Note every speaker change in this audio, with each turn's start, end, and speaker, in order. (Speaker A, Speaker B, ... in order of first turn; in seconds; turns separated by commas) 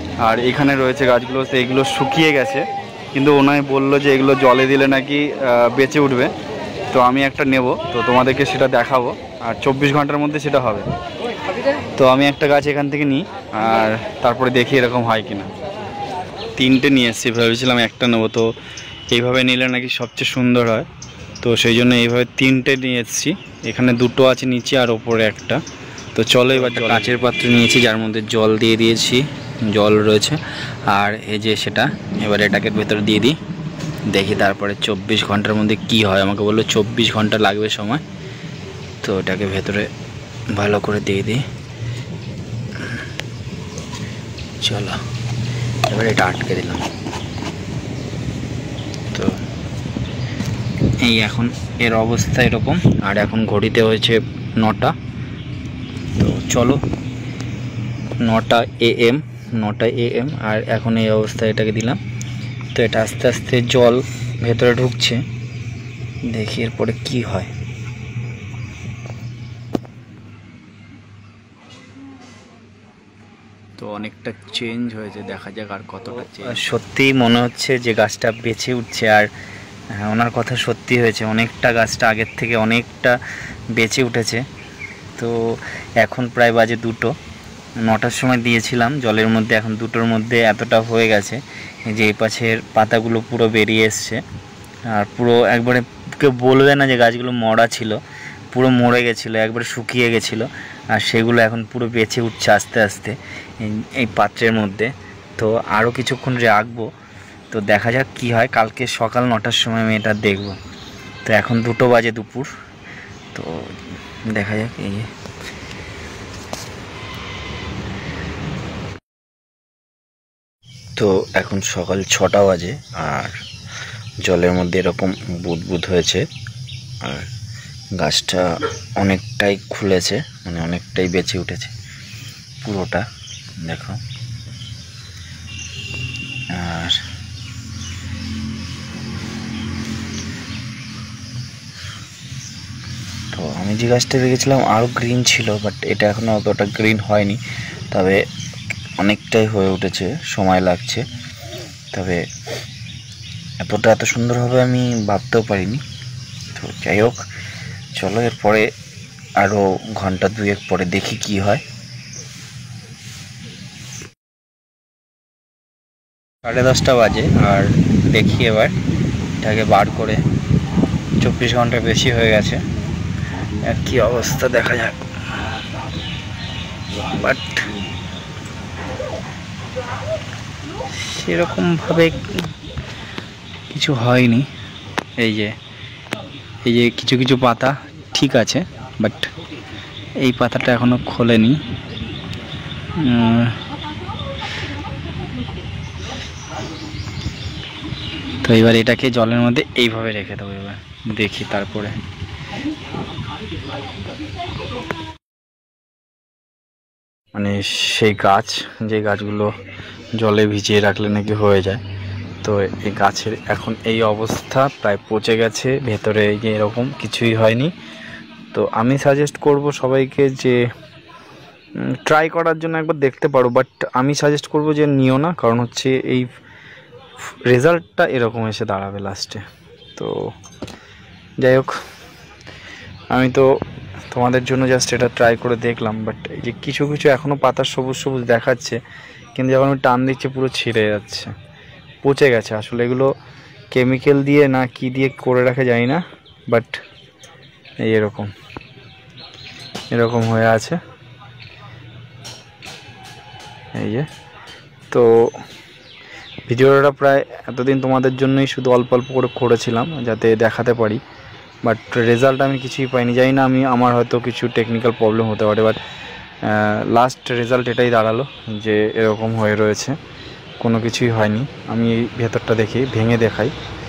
Speaker A: 0.2-6.3, Speaker A: 6.9-10.9, Speaker A: 11.9-15.5, Speaker A: 16.6-18.5, Speaker A: 19.1-20.9, Speaker A: 21.4-25.6, Speaker A: 26.1-33.4, Speaker A: 34.1-38.0, Speaker A: 39.0-39.9, Speaker A: 40.5-41.4, Speaker A: 44.6-45.0, Speaker A: 45.9-46.8, Speaker A: 49.1-49.4, Speaker A: 51.0-55.0, Speaker A: 56.2-56.8, Speaker A: 58.2-62.0, Speaker A: 62.7-65.2, Speaker A: 66.3-67.5, Speaker A: 73.8-79.3, Speaker A: 79.9-83.2, Speaker A: 83.7-84.4, Speaker A: 85.2-87.1, Speaker A: 87.8-94.2, Speaker A: 94.9-98.0, Speaker A: 98.5-106.9, Speaker A: 107.5-110.6, Speaker A: 111.2-112.5, Speaker A: 113.3-113.6, Speaker A: 114.3-115.1, Speaker A: 121.0-123.3, Speaker A: 124.2-126.2, Speaker A: 128.0-131.7, Speaker A: 132.6-133.0, Speaker A: 133.6-134.0, Speaker A: 136.5-137.0, Speaker A: 143.3-147.4, Speaker A: 147.9-148.2, Speaker A: 149.0-151.0, Speaker A: 151.9-152.2, Speaker A: 153.6-155.8, Speaker A: 156.6-157.2, Speaker A: 157.9-158.7, Speaker A: 159.4-161.6, Speaker A: 166.4-168.7, Speaker A: 169.4-170.2, Speaker A: 171.2-172.6, Speaker A: 173.6-175.0, Speaker A: 177.1-177.7, Speaker A: 180.9-182.4, Speaker A: 183.7-184.5, Speaker A: 185.2-185.5, Speaker A: 186.6-189.3, Speaker A: 190.2-191.6, Speaker A: 193.0-193.6, Speaker A: 198.4-201.9, Speaker A: 207.3-209.5, Speaker A: 210.2-211.8, Speaker A: 212.4-217.7, Speaker A: 218.5-220.6, Speaker A: 221.9-226.2, Speaker A: 227.5-229.4, Speaker A: 229.9-230.3, Speaker A: 231.4-231.8, Speaker A: 233.1-233.5, Speaker A: 234.1-238.8, Speaker A: 239.3-241.3, Speaker A: 242.0-243.1, Speaker A: 243.7-246.8, Speaker A: 247.8-248.3, Speaker A: 249.9-250.8, Speaker A: 253.7-254.1, Speaker A: 256.5-261.0, Speaker A: 261.6-265.8, Speaker A: 266.4-269.9, Speaker A: 270.6-273.5